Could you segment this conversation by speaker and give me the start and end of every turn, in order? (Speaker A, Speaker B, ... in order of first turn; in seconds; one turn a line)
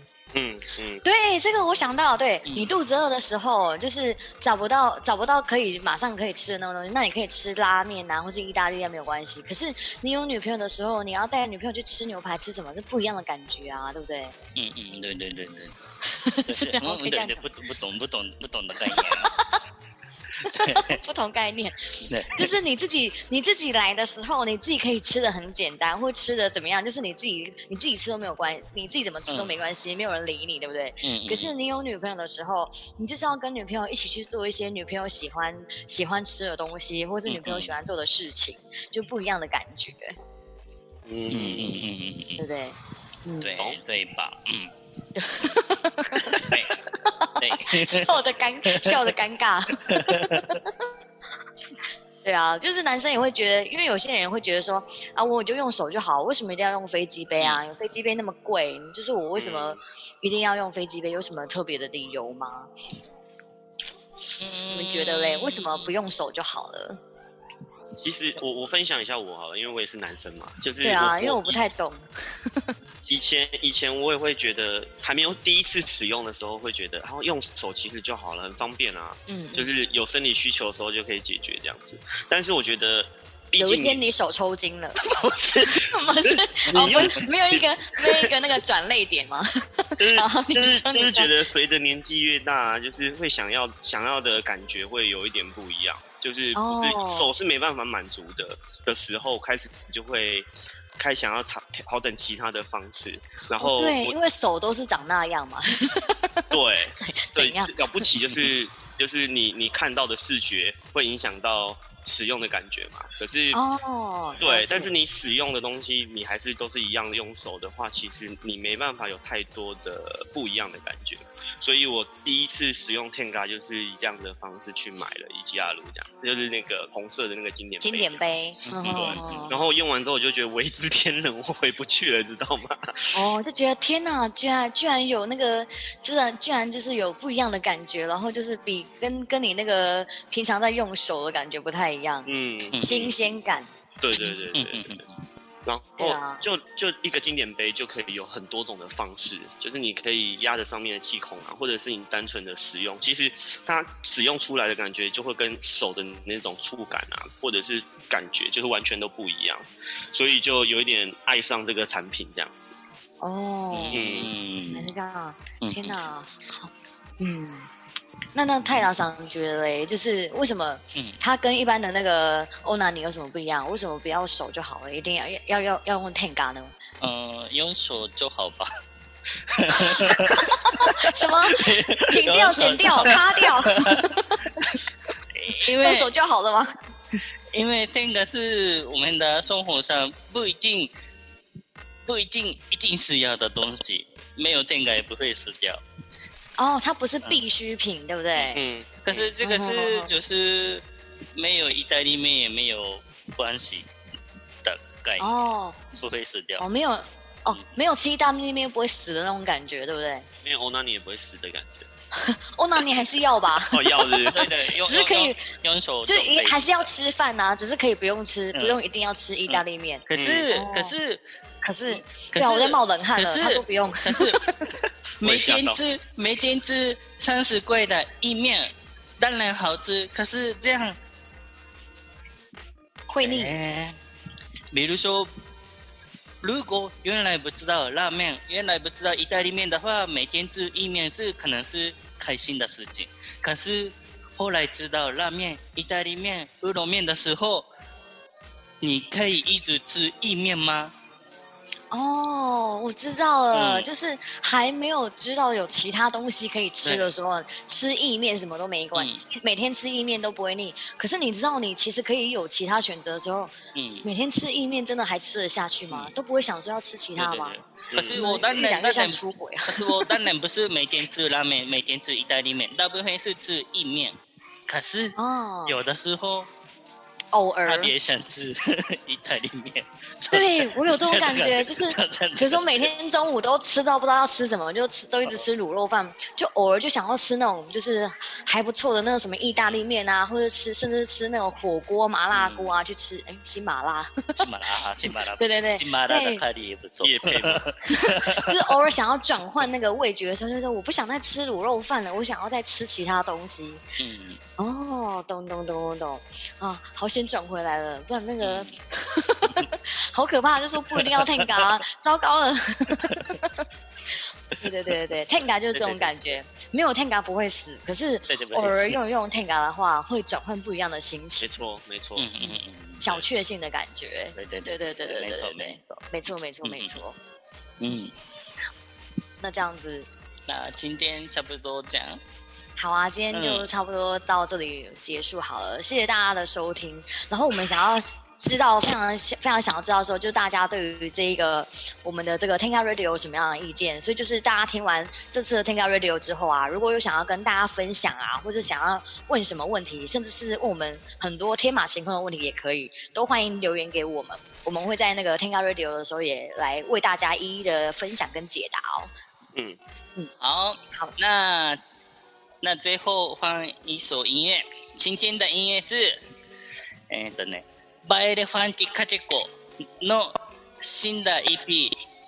Speaker A: 0.3-1.0
Speaker B: 1.0-14.3
Speaker C: 2.4-2.7
Speaker C: 14.6-15.7
Speaker B: 16.1-17.5
Speaker C: 16.5-19.3
Speaker B: 18.8-19.5
Speaker B: 20.4-40.1
Speaker C: 20.5-21.0
Speaker C: 22.1-22.5
Speaker C: 29.3-29.5
Speaker C: 31.0-31.5
Speaker C: 37.3-37.7
Speaker A: 41.0-41.8
Speaker C: 41.3-42.4
Speaker B: 42.4-43.5
Speaker C: 43.4-44.7
Speaker B: 45.1-50.7
Speaker C: 46.1-46.8
Speaker C: 47.4-48.1
Speaker C: 48.7-49.1
Speaker C: 49.9-50.6
Speaker B: 52.2-62.7
Speaker A: 59.4-59.8
Speaker C: 64.4-65.9
Speaker B: 64.7-67.0
Speaker A: 68.0-71.6
Speaker B: 70.8-72.7
Speaker A: 73.1-84.0
Speaker B: 79.3-79.7
Speaker B: 83.6-85.0
Speaker A: 85.0-88.3
Speaker B: 85.7-91.3
Speaker A: 90.0-104.2
Speaker B: 96.5-97.3
Speaker B: 103.6-106.4
Speaker A: 106.5-113.6
Speaker B: 107.0-108.0
Speaker B: 113.5-114.9
Speaker A: 114.4-128.2
Speaker B: 127.8-129.6
Speaker C: 128.7-129.5
Speaker A: 128.9-133.2
Speaker B: 133.1-142.3
Speaker A: 142.2-143.1
Speaker C: 142.7-143.0
Speaker B: 142.8-143.7
Speaker A: 144.0-145.0
Speaker C: 144.5-145.1
Speaker A: 145.6-162.7
Speaker B: 146.0-146.4
Speaker B: 163.2-167.7
Speaker C: 163.7-164.9
Speaker A: 163.9-164.3
Speaker C: 165.6-166.0
Speaker B: 168.3-176.7
Speaker C: 177.0-178.7
Speaker C: 179.5-184.8
Speaker B: 179.7-184.7
Speaker C: 185.3-186.1
Speaker B: 185.6-186.7
Speaker C: 187.5-190.9
Speaker C: 192.1-195.8
Speaker B: 196.6-198.6
Speaker A: 198.5-199.3
Speaker C: 199.0-203.9
Speaker B: 199.4-200.1
Speaker C: 204.6-205.3
Speaker B: 205.2-205.8
Speaker C: 206.0-206.6
Speaker B: 206.6-210.3
Speaker A: 210.4-211.9
Speaker B: 212.1-215.4
Speaker A: 213.7-214.4
Speaker C: 214.3-216.9
Speaker B: 216.1-220.9
Speaker C: 218.5-218.8
Speaker C: 219.5-221.2
Speaker A: 220.2-220.5
Speaker B: 221.6-224.7
Speaker C: 221.9-224.4
Speaker C: 225.2-231.0
Speaker A: 225.2-225.8
Speaker B: 233.1-233.5
Speaker C: 233.2-234.0
Speaker C: 234.7-235.3
Speaker C: 236.4-247.7
Speaker C: 248.8-250.9
Speaker B: 251.9-263.5
Speaker C: 253.5-253.9
Speaker C: 256.8-257.1
Speaker C: 258.9-259.2
Speaker C: 263.7-264.1
Speaker B: 264.0-267.5
Speaker C: 267.2-274.2
Speaker A: 267.9-268.2
Speaker B: 268.1-270.2
Speaker C: 274.7-276.5
Speaker B: 275.2-275.8
Speaker B: 277.3-277.9
Speaker C: 277.6-282.9
Speaker B: 280.3-294.4
Speaker C: 292.3-292.7
Speaker C: 294.4-298.6
Speaker B: 295.4-296.4
Speaker A: 297.0-297.7
Speaker B: 297.9-303.8
Speaker C: 304.0-304.4
Speaker B: 304.6-313.6
Speaker C: 308.4-308.7
Speaker C: 311.0-311.7
Speaker C: 313.0-313.4
Speaker B: 314.6-321.5
Speaker C: 315.7-316.1
Speaker C: 318.3-319.0
Speaker A: 321.4-322.3
Speaker C: 322.2-323.2
Speaker B: 322.4-327.2
Speaker C: 324.4-326.9
Speaker C: 327.8-328.1
Speaker B: 329.4-330.1
Speaker C: 330.5-332.2
Speaker B: 332.8-359.1
Speaker C: 333.3-333.7
Speaker C: 360.4-361.8
Speaker C: 362.6-366.2
Speaker C: 367.1-372.0